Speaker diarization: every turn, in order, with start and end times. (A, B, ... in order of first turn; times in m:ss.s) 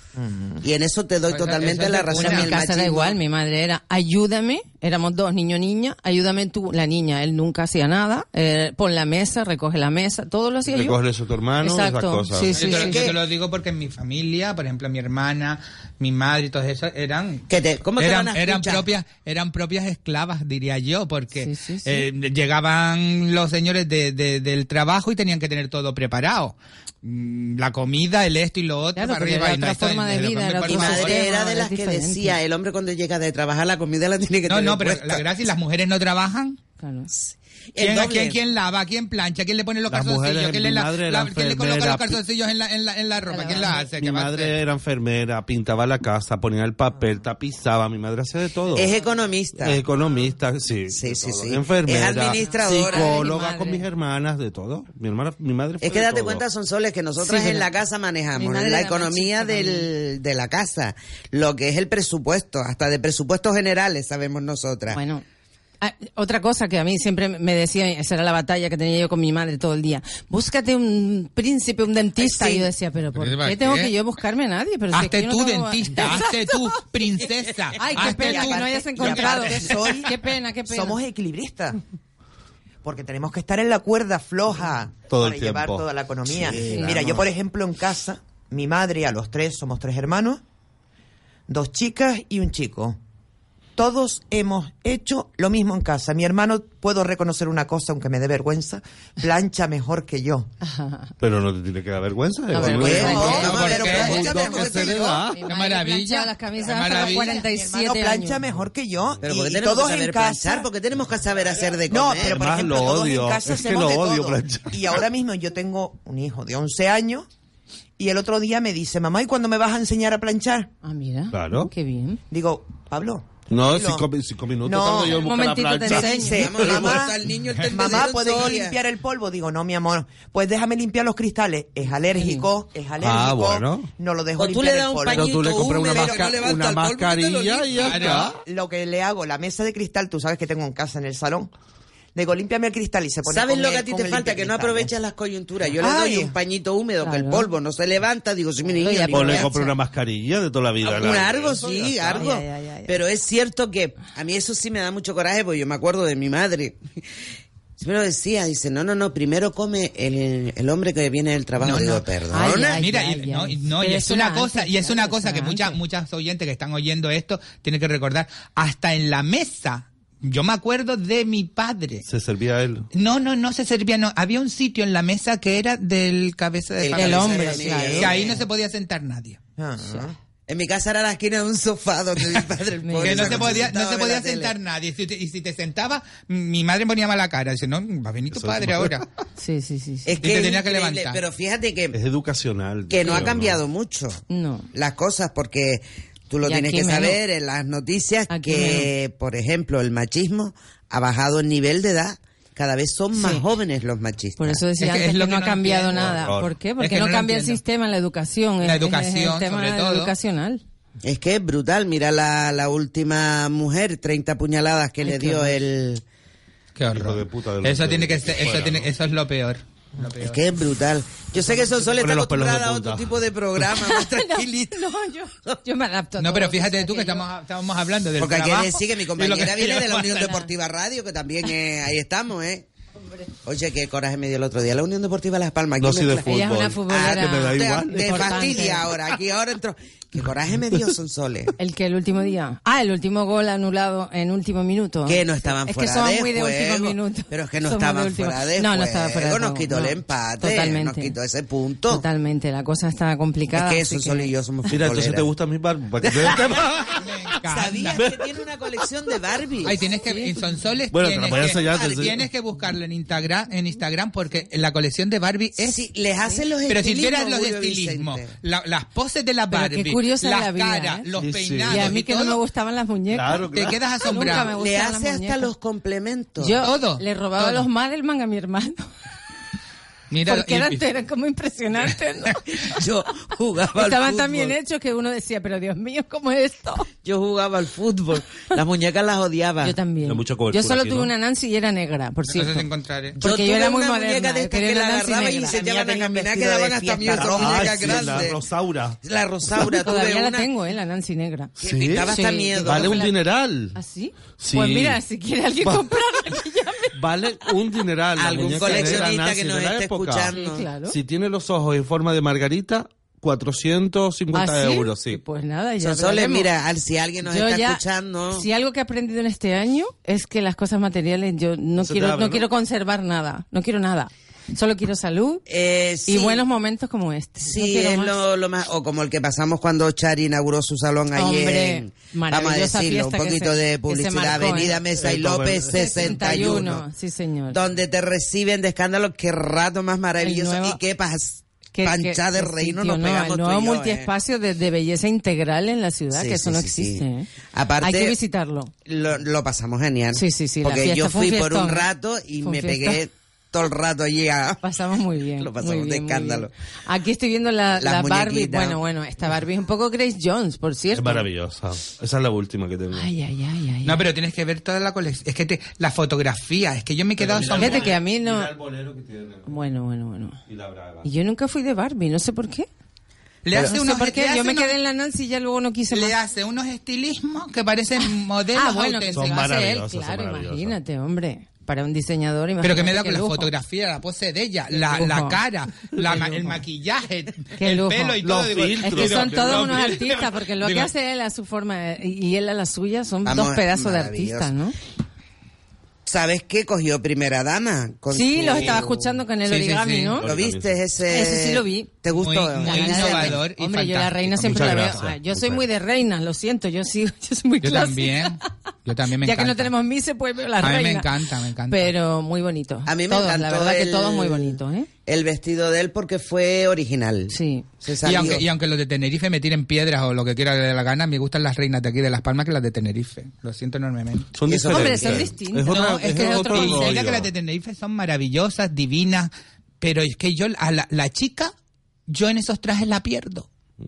0:00.2-0:00.6 A
0:00.6-0:03.2 B
0:01.3-0:02.5 C
0:02.2-0:11.0 D
0:10.7-0:12.6 E
0:11.6-0:13.1 D
0:12.5-0:31.2 C
0:12.7-0:13.2 B
0:17.5-0:18.8 B
0:21.4-0:22.1 D
0:29.0-0:32.4 D
0:30.7-0:35.2 B
0:34.5-0:36.6 C
0:36.8-0:37.1 D
0:37.1-0:38.4 B
0:37.8-0:44.6 C
0:39.9-0:42.2 E
0:43.3-0:43.9 D
0:43.9-0:48.9 E
0:48.7-0:49.8 B
0:49.6-0:56.4 E
0:50.9-0:53.2 B
0:52.3-0:53.8 D
0:55.8-1:05.0 B
0:57.2-0:57.7 D
0:58.4-0:59.9 D
1:04.9-1:05.2 D
1:05.8-1:16.7 D
1:12.2-1:12.7 B
1:13.2-1:13.9 C
1:14.9-1:19.7 C
1:17.8-1:21.0 D
1:17.9-1:20.1 A
1:20.7-1:21.8 A
1:22.8-1:30.4 A
1:25.1-1:27.3 E
1:31.5-1:33.0 A
1:33.8-1:40.5 A
1:40.6-1:41.1 D
1:41.2-1:45.5 E
1:42.5-1:43.6 D
1:42.6-1:45.2 B
1:42.6-1:45.3 A
1:43.3-1:44.4 C
1:45.3-1:48.4 D
1:45.4-1:47.5 C
1:46.8-1:50.7 A
1:49.2-1:52.8 B
1:51.9-1:57.3 A
1:52.2-1:55.0 E
1:58.0-2:00.7 A
2:00.8-2:02.2 D
2:01.3-2:01.7 E
2:02.3-2:04.0 A
2:03.5-2:07.1 E
2:04.6-2:05.2 A
2:05.1-2:06.5 D
2:05.9-2:07.1 A
2:05.9-2:08.8 B
2:07.6-2:16.6 A
2:12.2-2:12.4 D
2:13.0-2:13.9 E
2:14.4-2:18.2 B
2:15.1-2:18.4 E
2:17.8-2:21.5 A
2:17.8-2:18.3 C
2:22.2-2:24.9 A
2:23.3-2:29.5 B
2:25.8-2:26.3 A
2:27.0-2:27.5 D
2:28.6-2:29.8 D
2:29.1-2:32.3 E
2:30.8-2:36.8 B
2:32.0-2:33.0 D
2:37.8-2:42.8 B
2:41.6-2:42.0 C
2:42.3-2:45.8 D
2:42.7-2:52.0 C
2:52.0-2:52.9 E
2:52.9-2:59.4 C
2:56.8-2:58.4 B
2:56.9-2:58.2 D
2:59.6-3:00.2 A
3:00.5-3:04.5 B
3:02.8-3:03.6 D
3:03.0-3:09.1 C
3:08.3-3:09.0 E
3:09.4-3:10.2 D
3:10.0-3:12.0 B
3:10.2-3:11.2 C
3:11.9-3:13.6 E
3:12.9-3:14.2 B
3:14.3-3:14.7 D
3:14.7-3:24.6 B
3:16.4-3:17.2 D
3:18.3-3:18.9 D
3:23.2-3:23.4 D
3:24.4-3:30.6 D
3:24.8-3:27.6 C
3:25.9-3:26.6 E
3:28.6-3:30.1 C
3:31.0-3:36.0 B
3:35.0-3:35.6 D
3:36.8-3:40.4 C
3:36.9-3:38.9 E
3:40.2-3:44.8 B
3:41.4-3:43.2 E
3:43.7-3:47.2 D
3:46.2-3:50.5 C
3:48.2-3:52.7 B
3:53.4-3:56.3 B
3:55.8-3:58.6 E
3:56.2-3:58.9 D
3:56.9-4:01.5 B
4:01.6-4:11.1 D
4:05.1-4:12.0 B
4:11.9-4:14.3 D
4:13.5-4:15.3 B
4:14.7-4:17.0 E
4:16.0-4:16.4 B
4:16.9-4:18.0 C
4:17.5-4:19.8 B
4:19.6-4:25.8 C
4:20.1-4:20.4 D
4:20.9-4:22.2 E
4:25.6-4:28.3 B
4:26.7-4:32.4 C
4:29.5-4:31.1 D
4:31.2-4:32.0 E
4:31.7-4:33.4 D
4:33.1-4:33.8 E
4:33.5-4:34.5 C
4:34.0-4:35.5 D
4:34.5-4:36.6 B
4:36.4-4:38.9 D
4:36.6-4:37.7 C
4:40.1-4:40.9 C
4:40.3-4:42.8 D
4:42.5-4:44.6 B
4:43.7-4:46.9 D
4:47.0-4:49.8 B
4:49.6-4:52.7 D
4:50.0-4:51.1 E
4:52.3-4:53.2 C
4:53.2-4:58.4 B
4:53.2-4:55.6 D
4:55.3-4:58.3 A
4:57.2-4:59.0 E
4:59.0-5:00.5 B
4:59.6-5:03.2 D
5:01.6-5:03.1 B
5:01.6-5:03.8 E
5:03.8-5:07.0 D
5:04.4-5:05.0 E
5:05.6-5:06.0 E
5:07.0-5:10.4 E
5:08.2-5:10.7 B
5:08.5-5:09.1 D
5:10.3-5:11.0 D
5:10.9-5:15.2 E
5:14.3-5:16.5 D
5:15.8-5:18.5 B
5:17.2-5:17.8 D
5:18.3-5:25.4 D
5:21.8-5:22.5 E
5:25.5-5:26.4 B
5:26.1-5:28.2 D
5:27.4-5:36.8 B
5:31.1-5:34.8 D
5:34.4-5:36.8 E
5:35.7-5:37.6 D
5:37.5-5:44.1 B
5:40.2-5:40.8 D
5:41.8-5:47.3 D
5:46.1-5:48.2 B
5:47.8-5:48.7 D
5:48.9-5:54.6 B
5:50.1-5:51.9 D
5:52.4-5:53.0 D
5:54.6-6:01.3 D
5:55.4-5:56.5 B
5:57.8-5:58.8 B
6:00.9-6:03.1 E
6:02.9-6:04.0 D
6:03.8-6:08.0 C
6:07.2-6:09.6 E
6:07.6-6:08.5 D
6:09.5-6:10.4 D
6:10.5-6:11.1 E
6:11.0-6:12.7 D
6:13.4-6:14.8 C
6:13.5-6:16.2 D
6:15.9-6:19.5 C
6:18.0-6:23.5 D
6:19.1-6:20.8 E
6:22.6-6:30.9 C
6:24.7-6:25.4 D
6:26.0-6:26.6 E
6:27.6-6:34.8 D
6:28.2-6:30.1 E
6:33.2-6:34.5 B
6:36.1-6:39.1 B
6:38.1-6:40.3 D
6:39.4-6:40.2 C
6:40.2-6:40.8 E
6:40.2-6:43.4 B
6:41.1-6:41.9 D
6:42.2-6:45.0 C
6:42.5-6:48.4 D
6:44.4-6:45.7 E
6:47.6-6:49.7 C
6:49.2-6:51.1 D
6:50.6-6:52.0 C
6:51.7-6:54.9 D
6:52.9-6:58.4 B
6:57.3-6:57.7 D
6:58.0-7:04.3 C
7:04.3-7:07.3 E
7:04.5-7:05.3 B
7:04.7-7:07.1 D
7:05.7-7:11.5 C
7:12.1-7:13.5 C